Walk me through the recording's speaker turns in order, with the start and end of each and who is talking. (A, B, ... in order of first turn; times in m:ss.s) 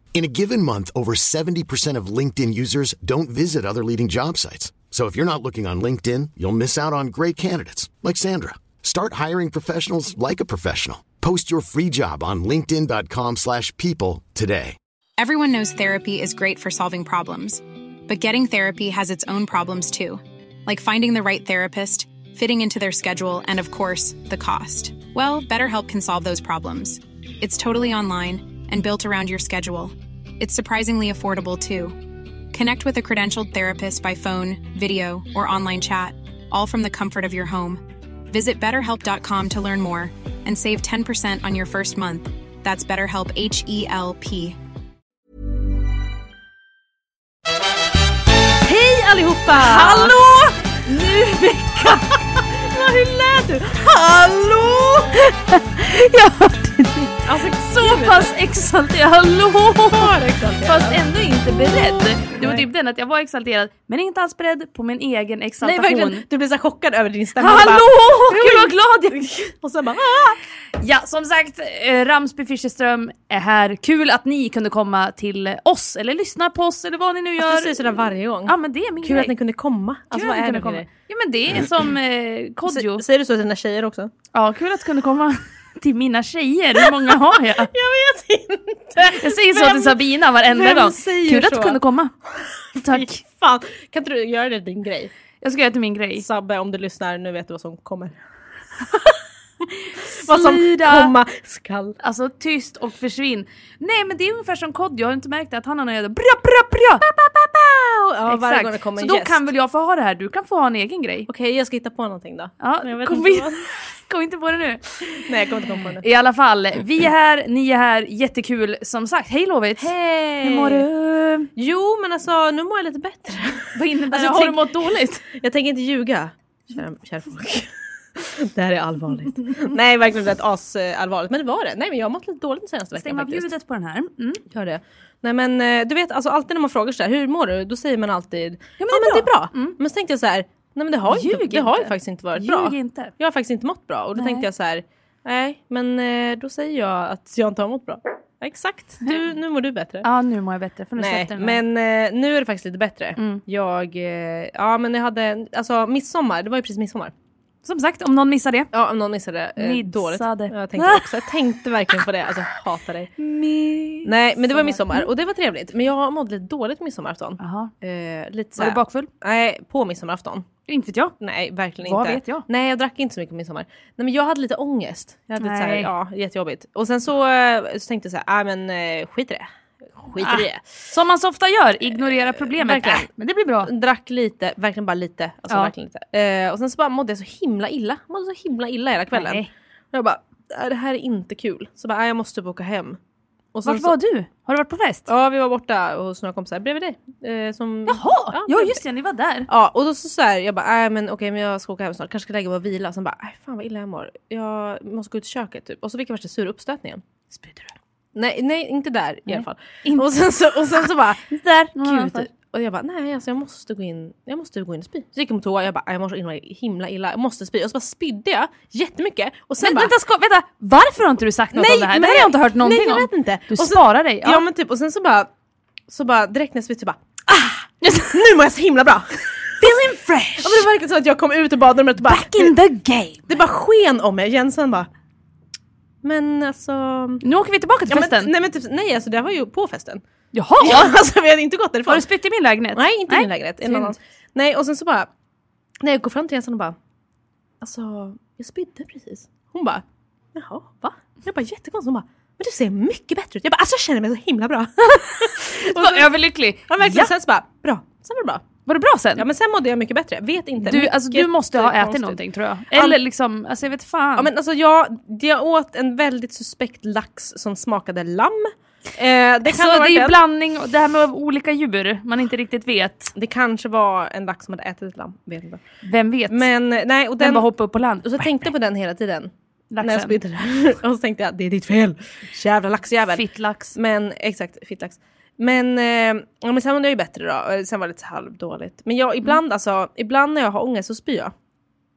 0:00.1-0:14.8 A
0:15.2-0:44.6 B
0:48.6-0:50.2 C
0:49.5-0:52.1 D
0:51.8-0:55.2 C
0:55.1-1:06.2 D
0:57.3-0:58.3 C
0:59.9-1:01.0 C
1:05.6-1:10.4 C
1:07.4-1:09.3 D
1:10.8-1:17.8 D
1:17.4-1:20.9 C
1:18.5-1:19.4 D
1:20.1-1:23.0 D
1:22.7-1:24.1 C
1:24.3-1:27.7 D
1:27.6-1:31.8 C
1:29.0-1:32.2 D
1:32.8-1:33.2 D
1:32.8-1:35.1 C
1:35.4-1:36.3 D
1:36.2-1:38.2 C
1:38.8-1:42.0 C
1:40.2-1:41.2 D
1:42.0-1:47.1 D
1:47.0-1:49.4 C
1:48.3-1:51.3 D
1:51.3-1:53.6 C
1:52.6-1:55.3 D
1:55.3-1:56.0 C
1:56.0-2:01.5 D
1:59.8-2:00.8 C
2:01.6-2:04.7 C
2:03.7-2:05.2 D
2:05.2-2:13.5 C
2:13.0-2:14.4 D
2:14.5-2:30.1 C
2:18.8-2:19.8 D
2:21.1-2:23.1 D
2:24.2-2:24.5 D
2:30.0-2:31.6 D
2:31.0-2:37.1 C
2:33.2-2:33.4 D
2:37.6-2:38.7 D
2:38.7-2:43.1 C
2:39.6-2:41.3 D
2:43.2-2:45.1 D
2:44.0-2:50.4 C
2:47.4-2:47.7 D
2:48.6-2:49.1 D
2:50.7-2:51.2 D
2:51.2-2:59.5 C
2:51.8-2:52.5 D
2:55.4-2:55.9 D
3:00.0-3:00.6 C
3:00.2-3:03.7 D
3:02.6-3:03.1 C
3:03.7-3:13.0 C
3:09.1-3:09.5 D
3:13.5-3:14.0 C
3:13.7-3:15.1 D
3:15.1-3:18.8 C
3:17.9-3:19.5 D
3:19.5-3:27.0 C
3:27.3-3:27.7 D
3:28.2-3:31.2 C
3:29.3-3:30.1 D
3:31.3-3:32.3 D
3:31.8-3:39.9 C
3:39.6-3:44.4 D
3:41.6-3:45.3 C
3:45.9-3:47.0 C
3:47.3-3:48.2 D
3:48.1-3:49.5 C
3:49.6-3:50.7 D
3:50.4-3:52.5 C
3:52.0-3:53.4 D
3:53.3-3:54.9 C
3:56.0-3:57.2 C
3:57.2-3:58.3 D
3:57.9-4:00.0 C
4:00.3-4:00.9 D
4:00.6-4:02.1 C
4:01.9-4:04.0 D
4:02.8-4:05.1 C
4:05.8-4:06.8 C
4:07.6-4:09.8 C
4:10.4-4:16.1 C
4:15.4-4:17.1 D
4:16.7-4:18.4 C
4:18.7-4:19.3 D
4:19.2-4:22.2 C
4:20.6-4:24.3 D
4:22.7-4:23.0 C
4:24.2-4:30.2 C
4:29.5-4:33.1 D
4:33.2-4:35.6 C
4:35.8-4:36.5 D
4:36.3-4:37.5 C
4:37.2-4:38.3 D
4:38.0-4:51.3 C
4:39.7-4:40.2 D
4:43.1-4:43.8 D